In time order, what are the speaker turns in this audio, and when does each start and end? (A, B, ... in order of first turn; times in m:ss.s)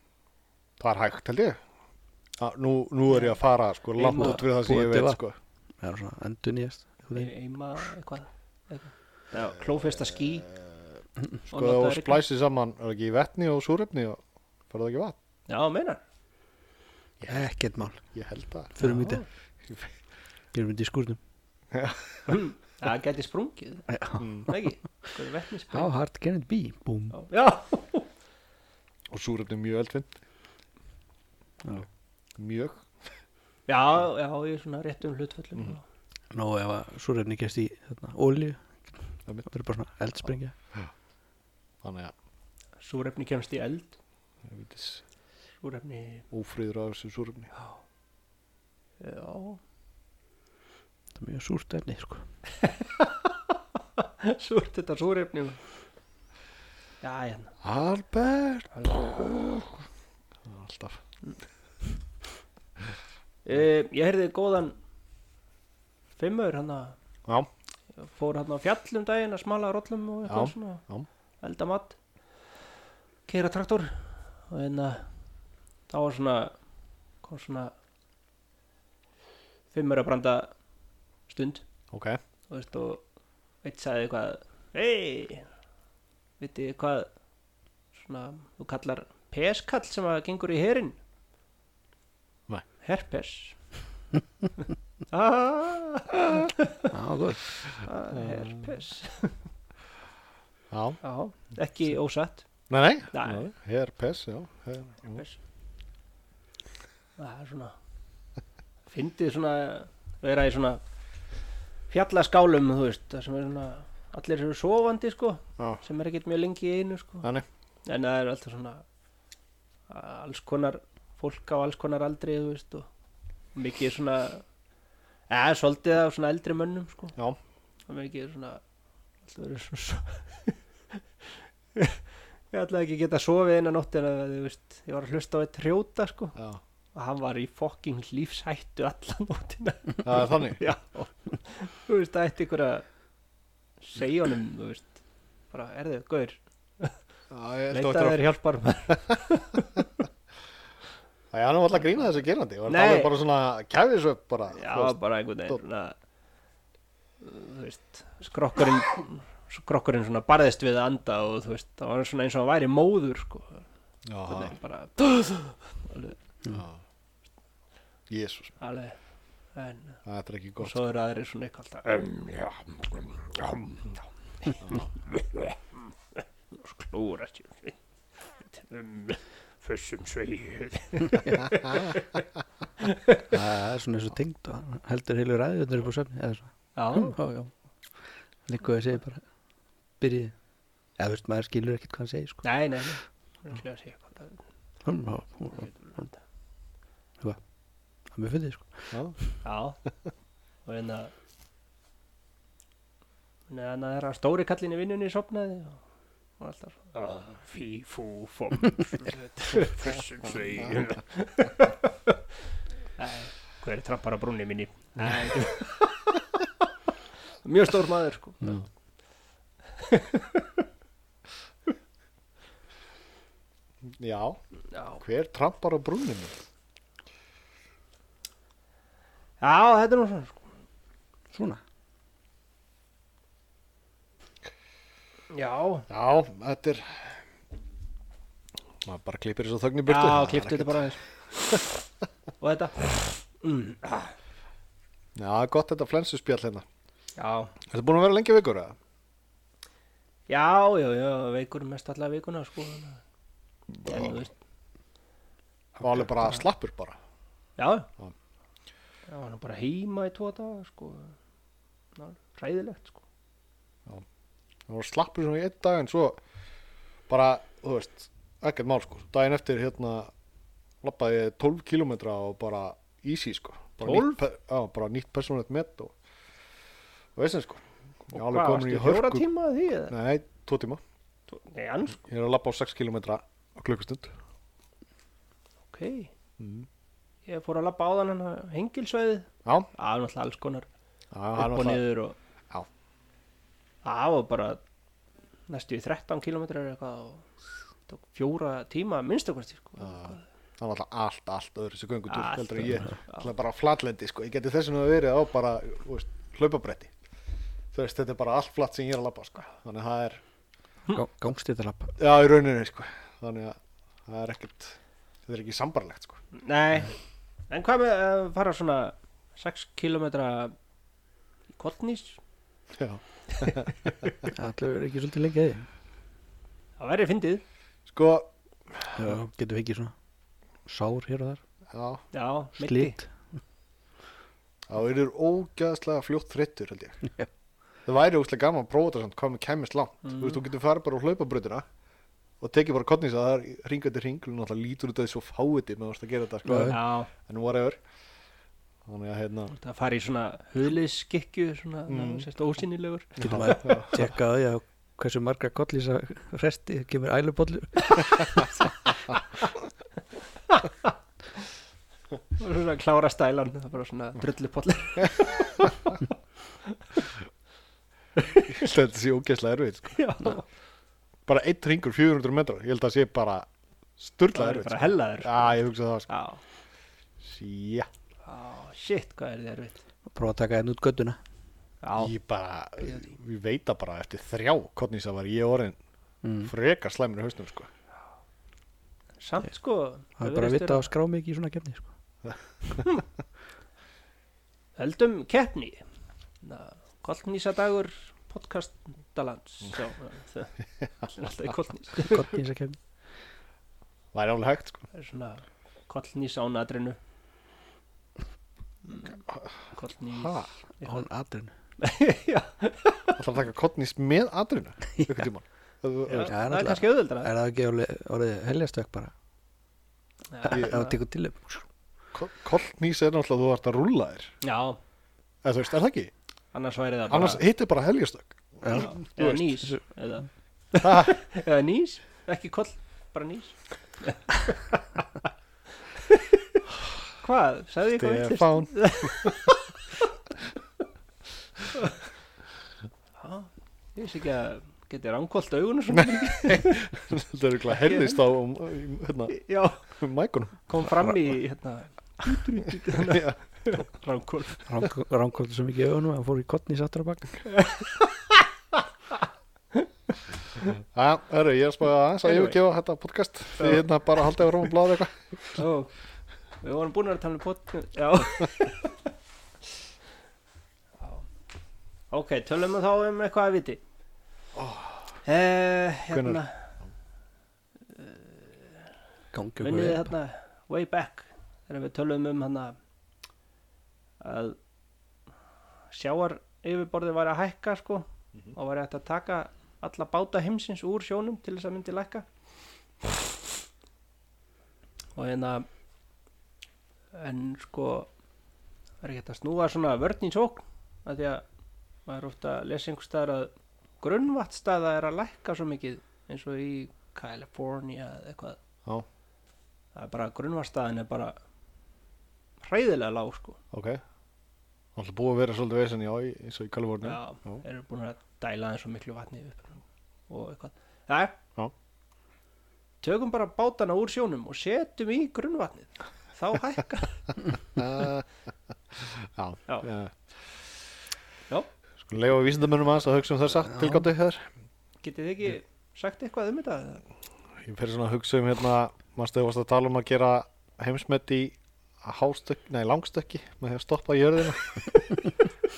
0:00.8-0:01.6 A
0:02.4-0:05.4 A
0:04.0-0:04.4 B
0:04.1-0:05.2 C
0:05.8-0:07.3 C
0:07.1-0:10.5 B
0:11.5-0:15.2 A
0:11.5-0:12.2 B
0:15.5-0:16.0 B
0:17.2-0:18.7 A
0:17.3-0:18.0 C
0:18.8-0:19.2 C
0:18.8-0:19.2 B
0:20.5-0:21.2 C
0:21.7-0:22.4 A
0:22.3-0:23.9 B
0:23.9-0:24.6 C
0:24.2-0:24.5 A
0:24.4-0:25.9 B
0:25.7-0:27.2 C
0:27.1-0:28.1 B
0:29.1-0:30.1 A
0:32.4-0:32.9 A
0:33.7-0:35.8 B
0:36.3-0:38.8 C
0:39.4-0:40.5 C
0:41.8-0:42.1 A
0:42.8-0:44.0 B
0:44.4-0:45.0 A
0:45.6-0:46.2 B
0:46.3-0:47.5 A
0:47.5-0:47.8 B
0:49.0-0:49.6 B
0:51.2-0:52.2 C
0:52.6-0:53.3 B
0:54.0-0:55.6 B
0:57.0-0:57.5 B
0:57.6-0:59.8 A
0:58.7-0:59.0 B
1:00.4-1:01.0 A
1:03.4-1:04.8 B
1:06.2-1:07.0 B
1:08.0-1:10.8 B
1:10.3-1:11.1 A
1:11.4-1:12.0 B
1:13.3-1:15.1 B
1:15.9-1:16.6 B
1:17.2-1:17.7 B
1:19.7-1:20.5 B
1:21.3-1:21.6 B
1:21.9-1:22.2 A
1:22.5-1:23.0 B
1:23.6-1:25.5 B
1:26.4-1:27.1 B
1:27.9-1:31.0 B
1:32.8-1:33.6 B
1:35.1-1:36.9 B
1:36.9-1:37.4 C
1:37.8-1:39.4 B
1:38.2-1:38.5 A
1:40.7-1:41.0 A
1:41.0-1:42.5 B
1:42.7-1:45.2 A
1:43.1-1:43.4 B
1:45.1-1:45.4 B
1:47.2-1:47.7 B
1:48.9-1:50.8 B
1:51.9-1:57.3 B
1:57.8-1:58.8 B
1:59.9-2:02.9 B
2:03.5-2:04.4 B
2:05.3-2:07.1 B
2:07.9-2:08.6 B
2:09.2-2:11.0 B
2:11.7-2:16.4 B
2:16.4-2:16.6 A
2:16.9-2:22.8 B
2:20.0-2:20.6 A
2:23.8-2:27.0 B
2:27.3-2:28.3 A
2:27.7-2:30.0 B
2:31.3-2:35.6 A
2:32.7-2:33.1 B
2:34.5-2:36.0 B
2:37.2-2:43.6 B
2:44.1-2:44.5 A
2:44.2-2:46.2 B
2:46.5-2:46.8 A
2:48.1-2:48.6 A
2:48.6-2:49.0 B
2:49.5-2:50.0 B
2:50.0-2:50.8 A
2:50.6-2:55.6 B
2:54.6-2:54.9 A
2:56.2-2:57.8 B
2:58.4-3:02.2 B
3:02.8-3:03.3 B
3:03.3-3:07.5 C
3:06.7-3:07.2 B
3:08.4-3:09.2 C
3:10.0-3:10.3 C
3:11.0-3:12.4 C
3:12.4-3:14.4 B
3:14.8-3:16.1 C
3:15.6-3:16.2 B
3:18.1-3:19.0 C
3:19.4-3:19.8 B
3:20.6-3:21.1 B
3:23.5-3:25.8 B
3:26.4-3:32.2 B
3:33.0-3:36.6 B
3:37.4-3:38.5 B
3:39.8-3:40.6 B
3:43.8-3:44.4 A
3:44.7-3:45.0 B
3:45.0-3:46.4 A
3:49.4-3:50.5 B
3:51.3-3:51.6 C
3:55.3-3:55.9 B
3:55.9-3:57.2 A
3:58.8-4:00.8 A
3:59.8-4:01.0 B
4:02.4-4:04.1 B
4:05.1-4:06.6 A
4:07.2-4:07.5 B
4:07.7-4:08.8 A
4:10.3-4:13.0 B
4:13.8-4:14.1 A
4:13.8-4:14.3 B
4:15.8-4:17.0 A
4:17.6-4:17.9 B
4:19.1-4:21.2 B
4:22.0-4:23.0 B
4:24.7-4:26.2 A
4:27.1-4:30.1 A
4:30.8-4:35.9 A
4:33.8-4:34.2 B
4:37.2-4:39.2 A
4:38.1-4:39.9 B
4:39.9-4:40.8 A
4:41.3-4:42.0 B
4:42.0-4:44.1 A
4:45.7-4:46.1 B
4:46.4-4:46.7 A
4:47.2-4:50.7 B
4:51.1-4:51.8 A
4:51.4-4:52.2 B
4:53.8-4:54.6 B
4:55.5-4:57.3 B
4:57.9-5:00.2 B
4:59.8-5:06.9 A
5:02.1-5:03.3 B
5:07.7-5:10.2 A
5:10.9-5:11.9 C
5:12.0-5:16.2 A
5:16.3-5:16.9 B
5:17.5-5:20.5 B
5:21.5-5:22.2 B
5:22.7-5:24.3 A
5:23.3-5:24.1 B
5:24.3-5:25.7 C
5:26.8-5:27.4 B
5:27.9-5:29.1 A
5:28.9-5:29.9 C
5:30.6-5:31.4 C
5:31.7-5:32.0 A
5:32.1-5:33.0 B
5:32.6-5:33.1 C
5:34.7-5:37.0 A
5:37.8-5:41.6 A
5:40.0-5:40.4 B
5:42.4-5:47.8 A
5:46.4-5:46.8 C
5:46.6-5:47.1 B
5:48.8-5:49.5 A
5:49.5-5:53.8 B
5:51.9-5:52.2 A
5:53.2-5:54.0 A
5:53.2-5:58.9 C
6:00.5-6:00.9 B
6:02.4-6:06.1 B
6:06.7-6:07.0 B
6:08.2-6:08.5 B
6:08.4-6:10.3 A
6:09.9-6:10.4 B
6:11.2-6:13.5 A
6:14.0-6:16.1 A
6:14.3-6:16.4 B
6:17.2-6:17.9 A
6:18.2-6:19.8 B
6:20.1-6:21.2 C
6:21.8-6:22.1 B
6:22.0-6:25.8 A
6:22.8-6:23.1 B
6:26.2-6:26.5 C
6:26.4-6:27.7 A
6:29.2-6:30.9 B
6:30.2-6:31.9 C
6:34.8-6:35.8 B
6:36.4-6:42.4 B
6:42.0-6:42.8 C
6:44.1-6:44.8 A
6:44.9-6:47.0 B
6:48.9-6:49.2 B
6:49.2-6:49.5 A
6:49.7-6:51.1 B
6:50.1-6:50.5 A
6:50.8-6:51.5 C
6:51.8-6:53.2 B
6:53.2-6:56.3 A
6:56.1-6:57.3 B
6:56.2-6:59.1 C
7:00.3-7:01.0 B
7:00.5-7:01.6 C
7:02.1-7:04.3 A
7:04.4-7:04.8 B
7:05.4-7:06.1 A
7:06.5-7:07.4 B
7:07.1-7:08.9 A
7:08.6-7:09.8 C
7:08.7-7:14.6 B
7:10.8-7:11.1 A
7:15.9-7:16.6 B
7:17.2-7:19.8 B
7:17.9-7:19.5 A
7:23.2-7:26.9 B
7:26.0-7:30.9 A
7:27.7-7:28.2 B
7:29.3-7:29.8 B
7:30.7-7:34.7 B
7:32.9-7:33.4 A
7:34.6-7:37.5 C
7:37.5-7:38.8 B
7:40.6-7:45.6 A
7:42.2-7:42.6 B
7:43.6-7:43.8 B
7:45.5-7:45.9 B
7:46.6-7:49.1 B
7:52.1-7:53.8 B
7:54.5-7:55.0 A
7:55.2-7:56.6 B
7:56.1-7:56.4 A
7:57.9-7:58.9 B
7:59.3-8:00.1 C
7:59.6-8:02.8 B
8:04.2-8:04.6 B
8:05.9-8:12.2 B
8:15.2-8:15.7 B
8:17.1-8:18.1 B
8:19.0-8:21.4 B
8:22.0-8:28.6 B
8:29.9-8:31.4 B
8:32.6-8:33.6 B
8:33.7-8:34.0 A
8:35.0-8:37.6 A
8:37.0-8:41.4 B
8:43.0-8:47.4 B
8:47.7-8:48.2 A
8:49.0-8:50.2 A
8:52.0-8:54.4 A
8:55.0-8:57.0 B
8:57.6-9:04.9 A